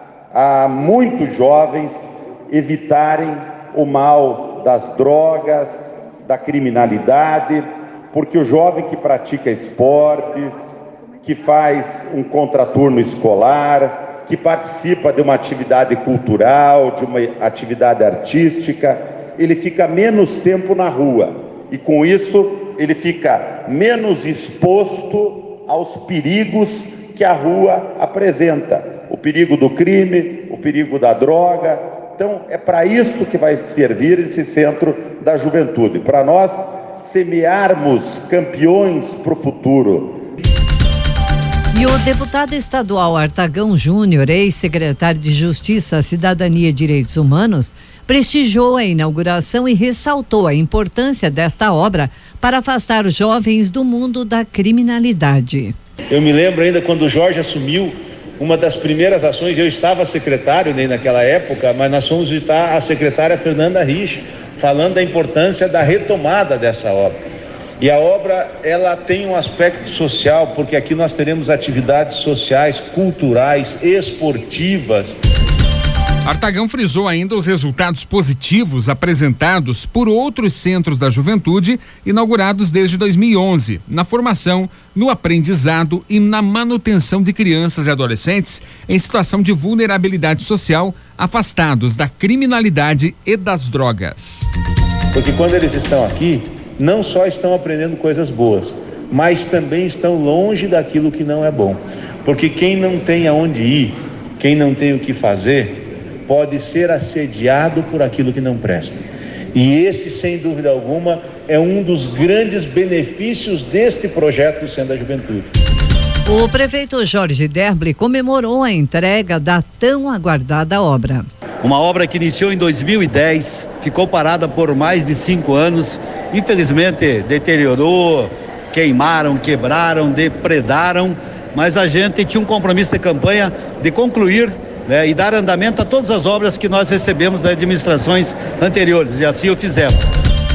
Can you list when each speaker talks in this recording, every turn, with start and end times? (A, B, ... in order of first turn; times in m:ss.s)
0:00.3-0:40.2 A
0:41.7-0:55.7 B
0:56.1-1:07.2 C
1:07.8-1:15.2 C
1:16.2-1:34.4 D
1:35.1-1:55.5 C
1:56.2-2:01.2 B
2:01.6-2:20.1 E